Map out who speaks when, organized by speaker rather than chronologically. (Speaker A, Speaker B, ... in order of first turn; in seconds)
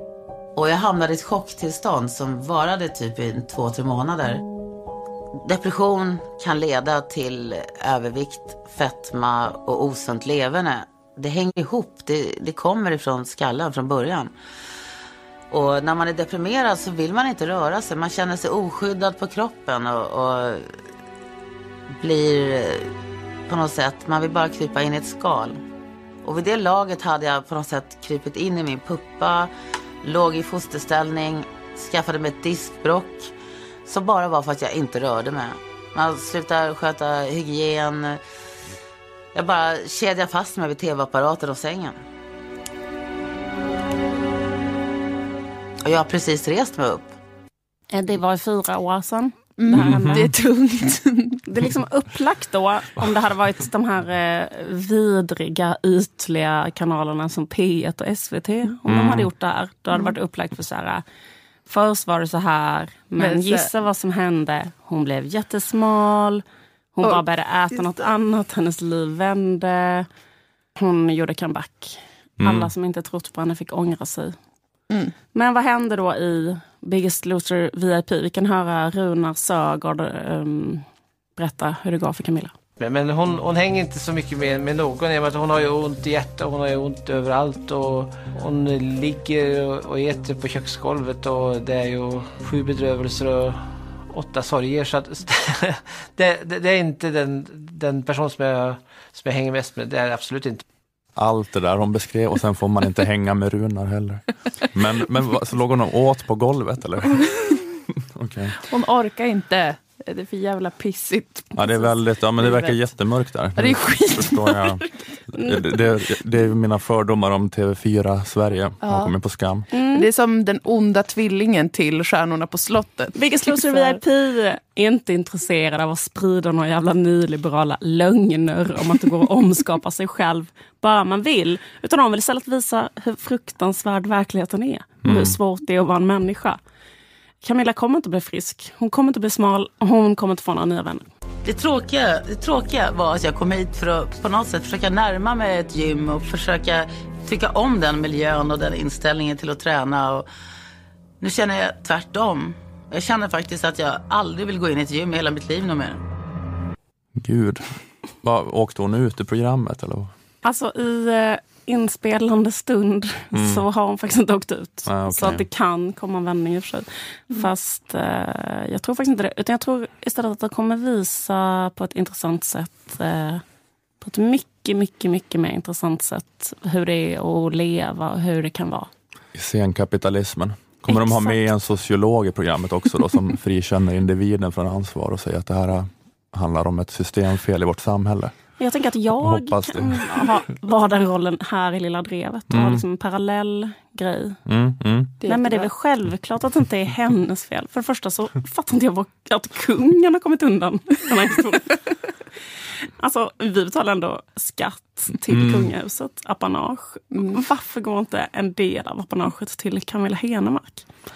Speaker A: 0.6-4.4, 5.5-14.3, 15.5-20.7, 22.0-22.9, 23.5-25.6, 26.2-29.5, 30.0-33.3, 33.9-38.2, 39.3-42.0, 45.8-47.1, 141.4-150.3, 151.2-156.0
Speaker B: 47.9-50.3, 51.5-61.0, 61.7-66.4, 67.0-70.1, 70.8-74.4, 75.3-80.8, 81.4-82.5, 119.7-120.1, 123.2-136.6, 137.4-141.1, 160.4-173.4, 174.0-178.9, 180.9-181.4, 188.6-194.4, 195.3-201.8, 203.0-210.9
Speaker C: 49.6-51.4, 63.2-63.7, 108.7-112.8, 113.6-114.8, 118.8-119.1, 119.8-124.0, 195.2-195.7
Speaker D: 49.7-50.3, 58.9-59.3, 72.4-72.7, 101.2-107.3, 108.0-108.6, 111.5-119.7, 135.1-135.4, 157.2-157.7, 158.2-160.1, 163.3-163.7, 164.9-165.4, 179.3-188.3, 189.2-190.1, 192.5-192.8, 194.5-195.2, 205.3-205.7
Speaker E: 82.8-100.6